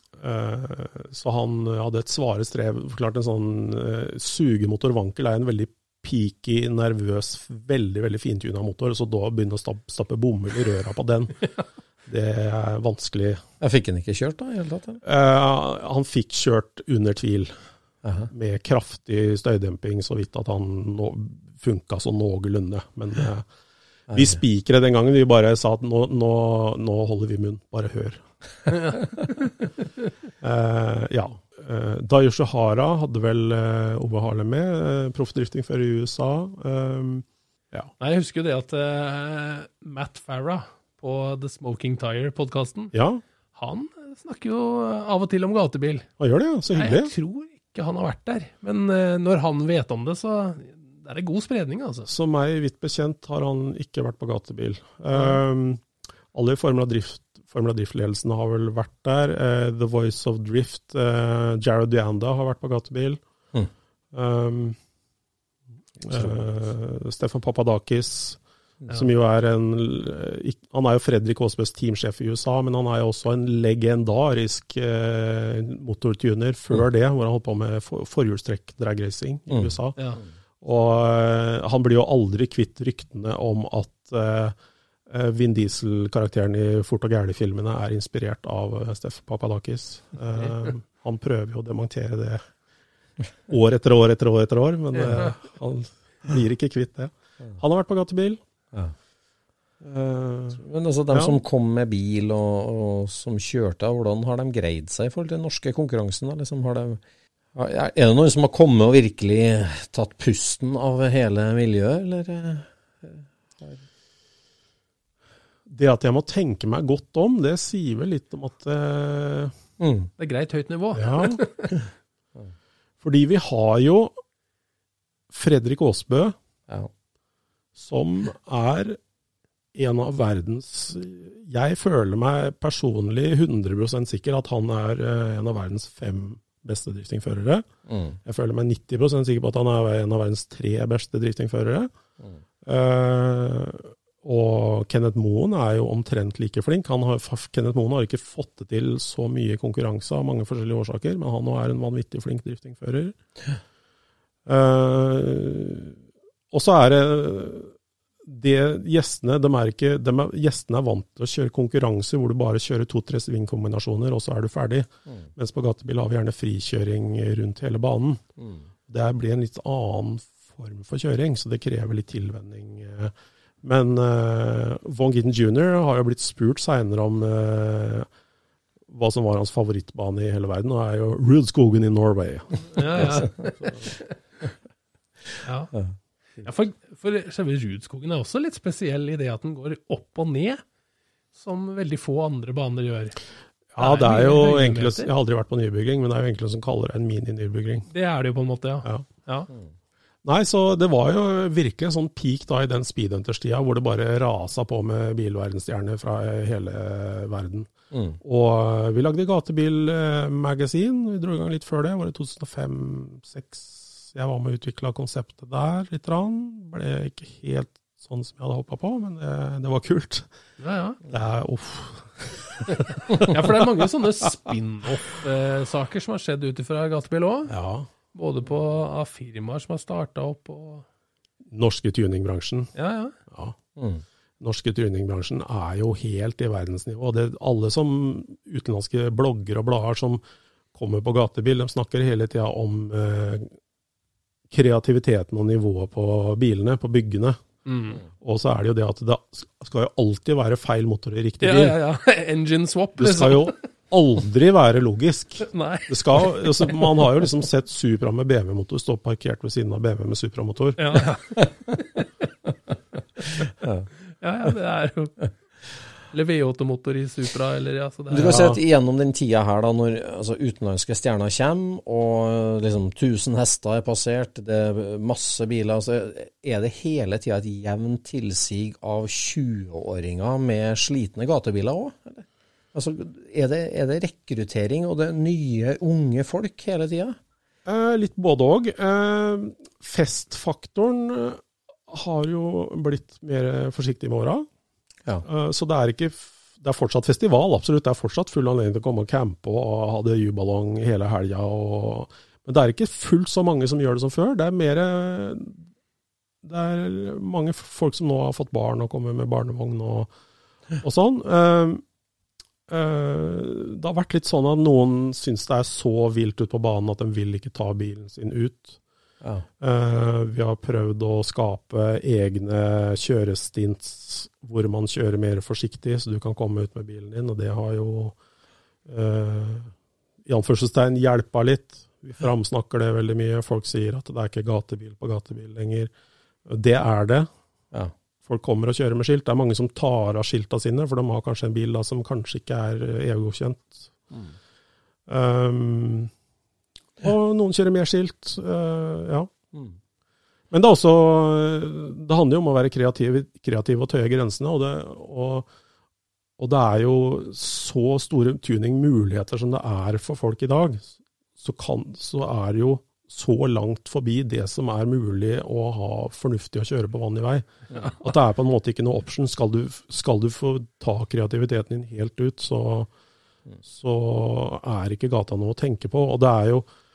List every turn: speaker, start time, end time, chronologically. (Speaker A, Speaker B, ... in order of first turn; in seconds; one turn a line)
Speaker A: 0.2-11.4
Speaker A: 12.1-13.4
Speaker B: 13.6-15.0
Speaker A: 15.0-17.6
Speaker B: 18.0-18.3
Speaker A: 18.3-23.5
Speaker B: 24.1-24.4
Speaker A: 24.1-28.2
Speaker C: 28.7-29.5
Speaker A: 30.4-37.9
Speaker C: 38.0-42.9
Speaker A: 42.9-43.2
Speaker C: 43.6-46.1
Speaker A: 46.2-47.1
Speaker C: 46.7-52.1
Speaker A: 52.1-55.8
Speaker C: 55.1-55.4
Speaker A: 56.3-63.2
Speaker A: 64.1-64.8
Speaker A: 66.0-80.1
Speaker B: 66.1-66.4
Speaker B: 79.5-80.3
Speaker A: 80.6-84.5
Speaker A: 85.1-92.4
Speaker A: 93.5-98.4
Speaker C: 95.0-95.4
Speaker A: 99.8-101.4
Speaker B: 100.6-107.0
Speaker B: 107.5-113.8
Speaker A: 115.7-119.5
Speaker B: 119.8-120.1
Speaker C: 120.2-121.7
Speaker A: 121.0-121.4
Speaker A: 123.0-124.2
Speaker A: 125.3-126.3
Speaker A: 127.8-129.0
Speaker A: 129.8-137.7
Speaker B: 137.9-138.2
Speaker A: 138.2-141.9
Speaker A: 142.7-153.2
Speaker A: 154.5-156.0
Speaker A: 156.5-157.7
Speaker A: 158.3-168.2
Speaker B: 168.4-168.7
Speaker A: 168.9-178.1
Speaker A: 178.9-183.9
Speaker C: 182.8-184.0
Speaker B: 183.0-183.3
Speaker C: 185.4-185.7
Speaker C: 186.4-190.6
Speaker C: 191.3-193.2
Speaker A: 193.8-197.9
Speaker C: 193.8-195.1
Speaker C: 197.9-199.5
Speaker A: 200.2-207.7
Speaker B: 207.9-208.2
Speaker A: 208.2-220.3
Speaker C: 220.6-221.0
Speaker A: 221.1-223.3
Speaker C: 223.1-227.5
Speaker A: 227.5-227.9
Speaker C: 228.1-230.8
Speaker A: 231.5-232.7
Speaker C: 232.8-233.2
Speaker A: 233.3-233.6
Speaker B: 233.8-234.0
Speaker A: 234.4-240.2
Speaker A: 240.7-243.5
Speaker A: 244.5-247.4
Speaker C: 247.7-248.0
Speaker A: 248.2-251.8
Speaker C: 251.4-253.7
Speaker A: 253.0-260.9
Speaker C: 255.4-256.9
Speaker C: 260.8-262.1
Speaker B: 263.4-263.9
Speaker C: 264.2-265.3
Speaker C: 266.1-268.5
Speaker B: 268.1-287.2
Speaker A: 287.7-294.5
Speaker A: 295.2-305.6
Speaker A: 306.4-310.1
Speaker A: 310.8-311.8
Speaker A: 312.7-318.8
Speaker A: 319.6-328.2
Speaker A: 328.9-329.7
Speaker A: 330.3-335.9
Speaker A: 336.5-337.3
Speaker A: 338.2-343.9
Speaker A: 345.1-346.1
Speaker A: 347.0-349.3
Speaker A: 350.5-355.5
Speaker A: 356.4-367.5
Speaker A: 368.0-372.9
Speaker A: 373.6-376.7